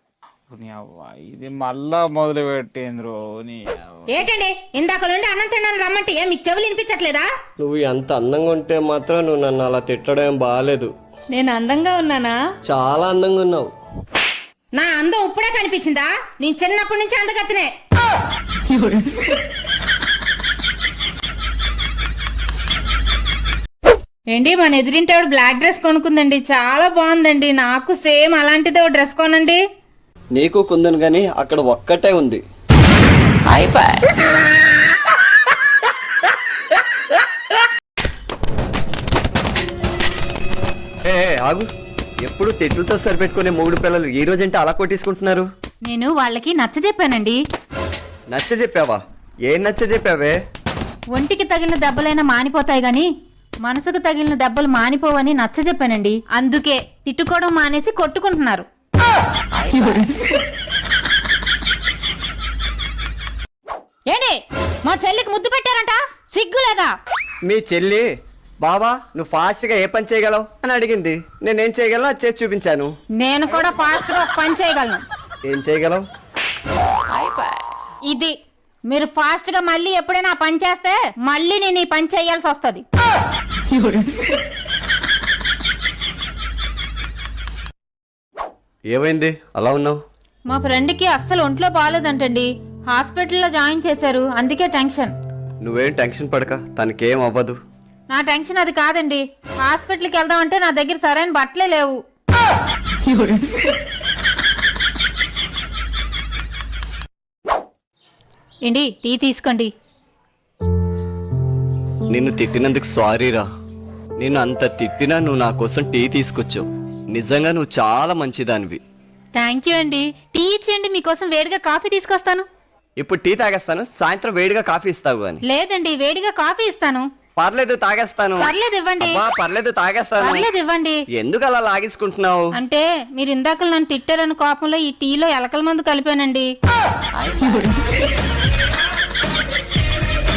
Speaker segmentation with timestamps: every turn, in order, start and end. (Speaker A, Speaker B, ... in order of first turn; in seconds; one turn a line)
Speaker A: 0.5-3.8
Speaker B: 4.1-7.3
Speaker C: 7.6-10.9
Speaker B: 11.4-12.3
Speaker C: 12.7-13.7
Speaker B: 14.7-17.7
Speaker B: 24.3-29.6
Speaker C: 30.4-32.4
Speaker C: 41.0-41.7
Speaker C: 42.2-45.4
Speaker B: 45.9-47.4
Speaker C: 48.3-50.3
Speaker B: 51.1-53.1
Speaker B: 53.6-58.6
Speaker B: 59.6-60.0
Speaker B: 64.1-66.9
Speaker C: 67.5-68.0
Speaker C: 68.6-72.9
Speaker B: 73.2-75.0
Speaker C: 75.5-76.0
Speaker B: 78.1-78.3
Speaker B: 78.9-82.8
Speaker C: 88.9-90.0
Speaker B: 90.5-95.1
Speaker C: 95.6-97.5
Speaker B: 98.1-102.0
Speaker B: 108.7-109.7
Speaker C: 112.1-113.4
Speaker C: 114.2-118.8
Speaker B: 119.3-122.5
Speaker C: 123.0-125.4
Speaker B: 125.5-127.0
Speaker C: 127.4-130.4
Speaker B: 128.4-129.2
Speaker B: 130.2-131.0
Speaker C: 131.2-132.5
Speaker B: 132.6-136.5